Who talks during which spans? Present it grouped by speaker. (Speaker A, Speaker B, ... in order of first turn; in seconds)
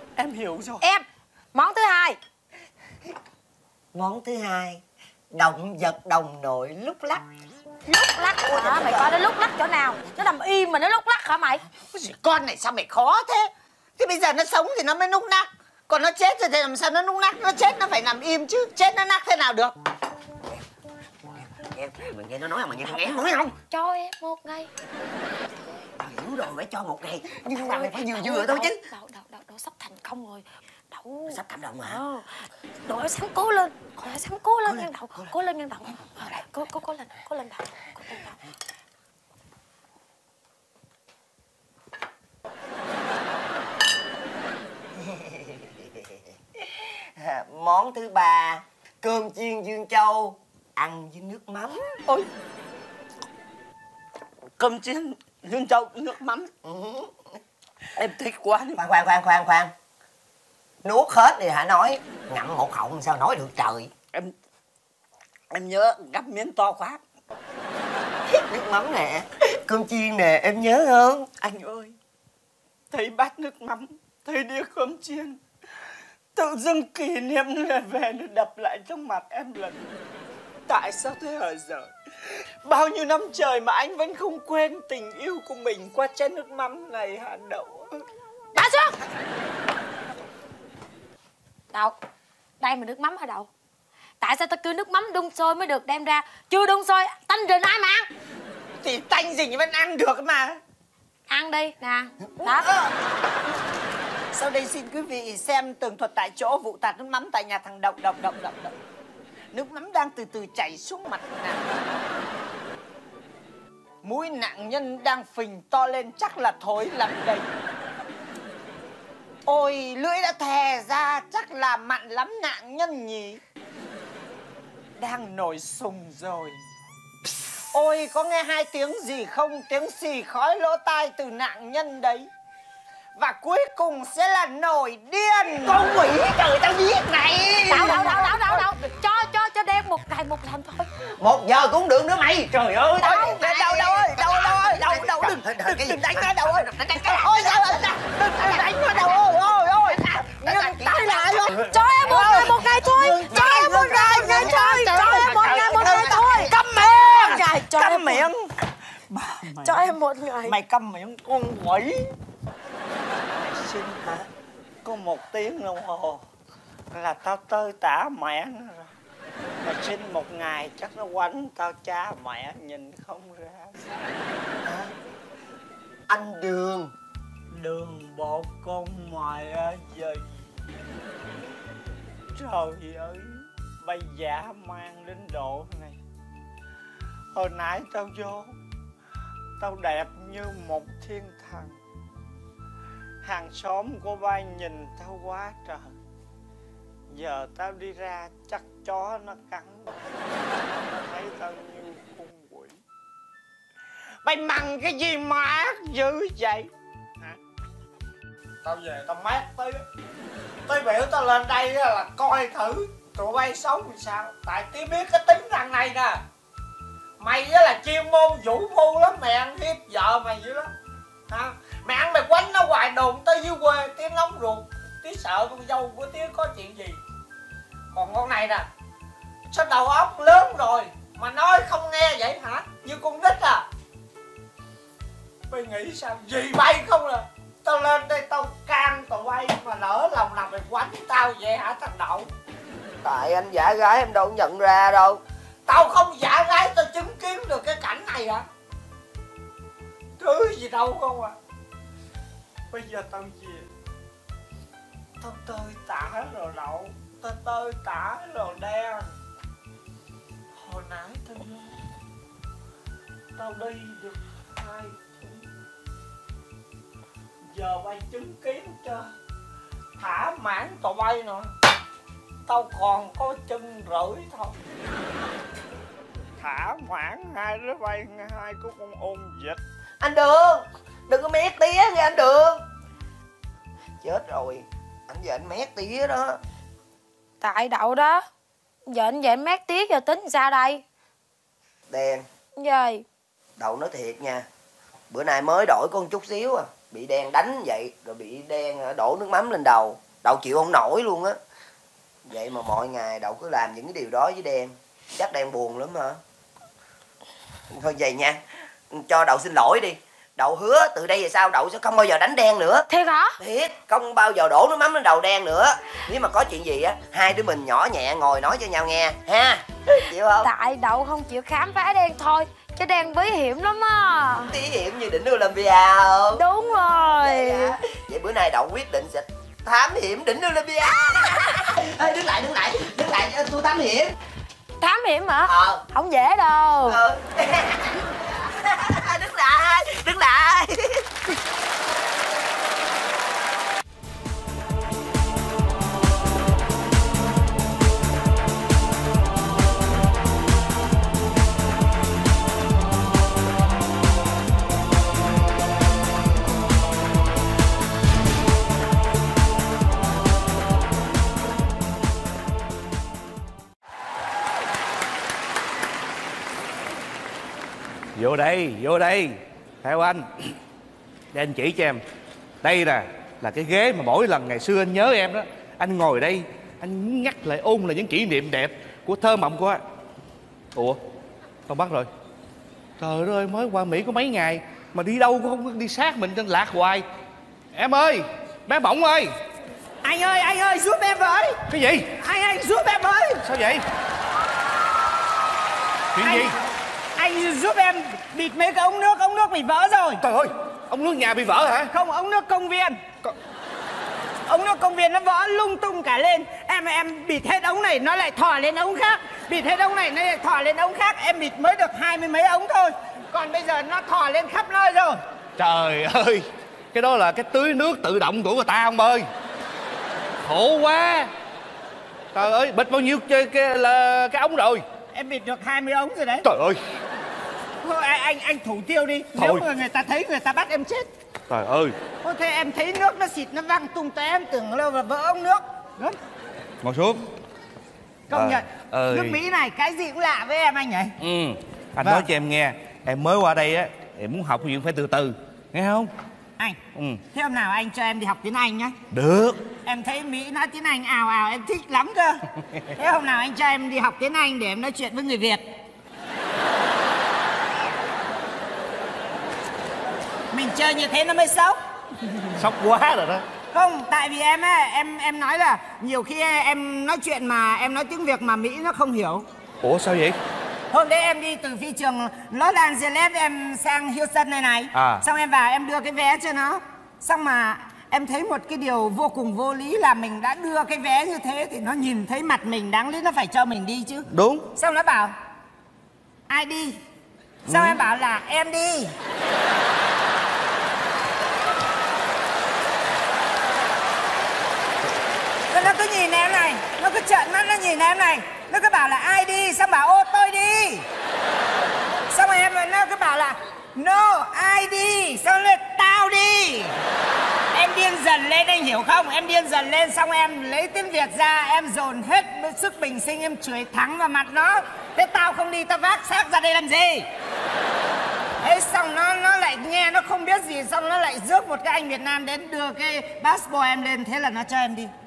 Speaker A: 0.1-0.8, 11.9-19.7, 54.6-56.5, 58.0-58.8, 65.5-67.0, 71.4-72.0, 72.9-75.4, 76.3-79.8, 80.7-81.9, 82.6-88.0, 98.8-100.6, 102.4-102.9, 104.3-108.7, 109.5-111.6, 114.0-117.5, 119.5-123.4, 125.0-126.6, 127.7-132.3, 133.2-135.9, 137.8-138.7, 143.0-158.5, 159.1-159.9, 160.5-162.1, 163.3-164.3, 164.8-166.2, 166.9-168.9, 169.6-173.9, 177.5-180.3, 182.3-186.0, 187.3-188.5, 189.6-191.8, 193.2-195.9, 197.1-199.9, 200.9-202.8, 204.2-206.7, 208.6-209.8, 210.7-216.2, 217.2-220.7, 221.3-227.0, 227.9-228.7, 229.5-233.7, 235.5-242.3, 245.7-248.4, 250.2-251.4, 252.7-253.7, 255.2-259.1, 260.5-261.7, 263.4-265.4, 267.5-269.1, 270.0-271.5, 272.5-274.6, 276.4-279.6, 390.0-391.6, 392.2-393.4, 396.2-396.5, 397.2-400.2, 401.9-403.0, 404.5-415.2, 425.1-426.4, 427.8-431.1, 432.2-436.1, 438.3-441.1, 447.3-448.9, 449.8-452.4, 452.9-455.6, 460.5-461.8, 463.7-469.4, 470.9-485.3, 486.5-487.0, 487.7-489.1, 495.7-501.1, 502.3-506.9, 507.7-517.3, 518.6-525.1
Speaker B: 0.8-2.2, 7.9-11.6, 22.9-24.7, 27.4-32.3, 32.9-38.4, 88.5-89.0, 92.6-93.5, 94.2-98.1, 101.3-102.7, 137.7-140.9, 143.1-143.3, 151.6-158.2, 159.6-160.6, 287.4-288.2, 288.9-290.8, 292.6-293.0, 312.9-313.4, 320.4-324.5, 326.3-327.8, 330.9-331.7, 334.8-337.0
Speaker C: 3.9-4.8, 5.3-7.2, 8.4-9.1, 21.2-23.5, 26.0-28.8, 31.3-32.0, 34.7-35.2, 45.0-45.8, 46.6-52.0, 56.6-57.2, 58.8-59.7, 60.8-63.9, 68.3-71.3, 135.6-138.2, 141.2-147.8, 148.4-151.8, 153.2-156.5, 174.7-174.9, 176.1-176.9, 243.0-245.2, 280.0-282.6, 284.0-286.4, 291.9-292.2, 293.6-294.4, 295.1-301.4, 302.2-306.2, 307.7-312.9, 313.4-320.5, 324.5-326.4, 327.2-334.1, 335.5-335.8, 336.9-341.1
Speaker D: 368.1-370.6, 371.3-372.0, 372.6-379.8, 380.7-381.0, 381.7-382.1, 383.0-387.1, 387.7-389.3, 391.7-392.1, 393.4-393.8, 396.1-396.6, 400.2-401.9, 415.6-419.3, 420.4-421.3, 422.3-424.8, 426.4-426.8, 429.4-429.6, 431.5-432.0, 436.8-437.3, 438.3-439.4, 441.2-446.1, 446.9-447.2, 449.1-449.7, 462.5-463.4, 469.8-470.4, 474.9-475.2, 484.3-484.7, 487.7-488.0